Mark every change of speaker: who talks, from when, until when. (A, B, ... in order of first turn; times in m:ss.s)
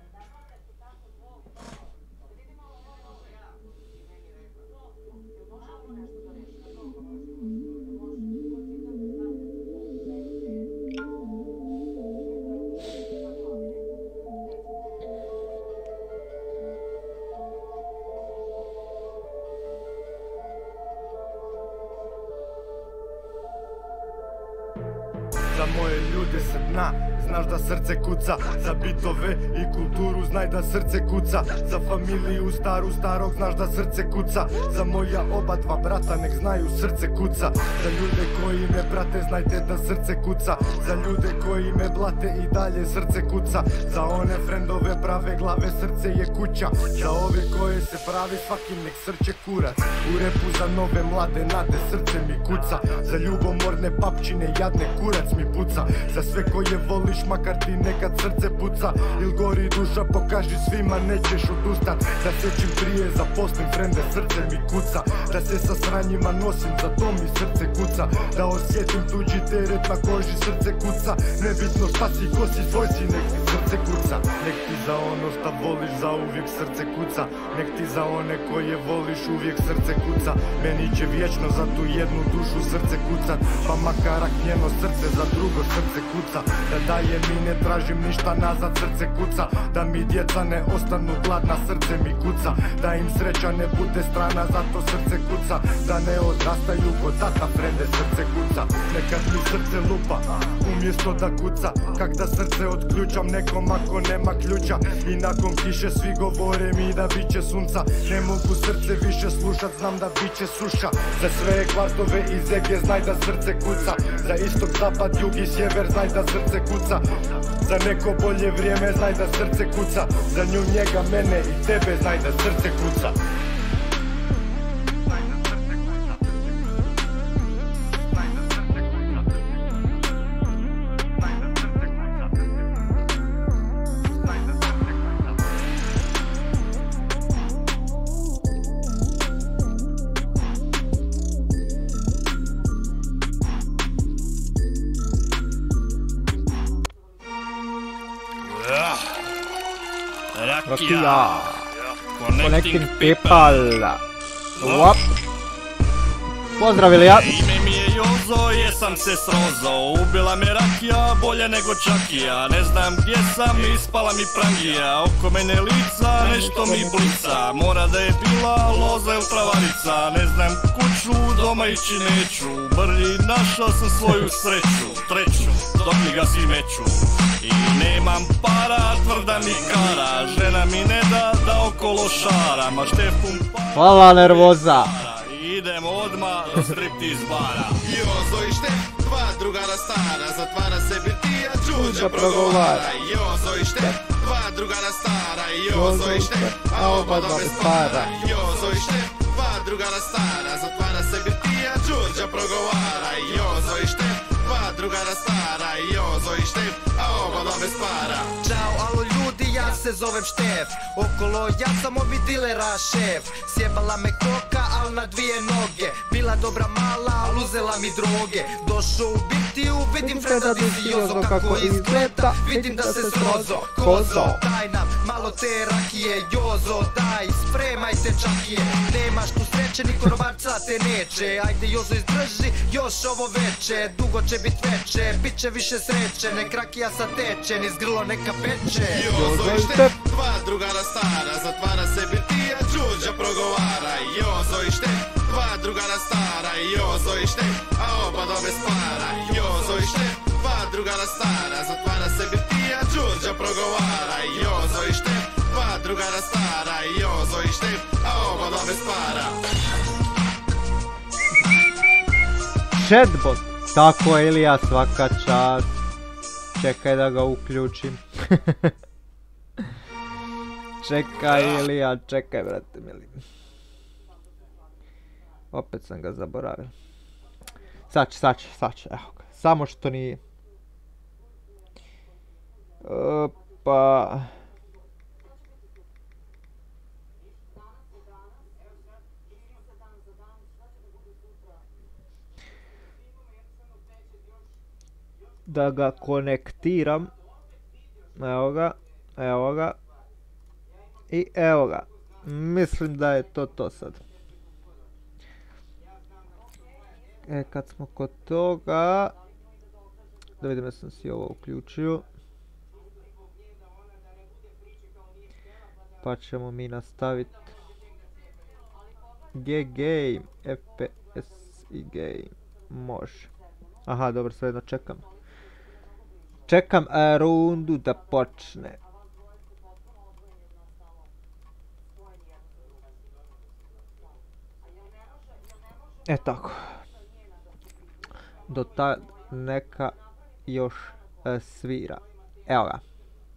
0:25.5-2:03.2 A
2:28.4-2:29.1 B
2:30.3-2:33.7 B
2:30.6-2:31.7 C
2:32.3-2:34.0 C
2:34.6-2:35.0 C
2:34.6-2:35.0 B
2:36.6-2:37.4 C
2:37.0-3:07.8 B
2:46.2-2:47.3 C
3:03.7-3:04.9 C
3:07.8-3:28.3 D
3:11.7-3:12.9 C
3:15.7-3:18.1 C
3:28.4-3:59.2 E
3:40.0-3:44.4 C
3:58.9-4:19.4 D
3:59.1-3:59.9 C
4:22.7-4:25.7 C
4:26.6-4:28.7 C
4:30.8-4:33.2 C
4:35.5-4:36.7 C
4:37.9-4:40.2 C
4:42.8-4:44.3 C
4:55.4-4:57.1 C
4:58.2-4:59.8 C
5:01.1-5:04.0 C
5:07.3-5:09.1 C
5:10.4-5:12.0 C
5:16.0-5:17.5 C
5:19.3-5:23.3 C
5:23.8-5:25.0 C
5:26.5-5:28.8 C
5:36.1-5:36.8 C
5:38.5-5:40.0 C
5:40.5-5:42.8 C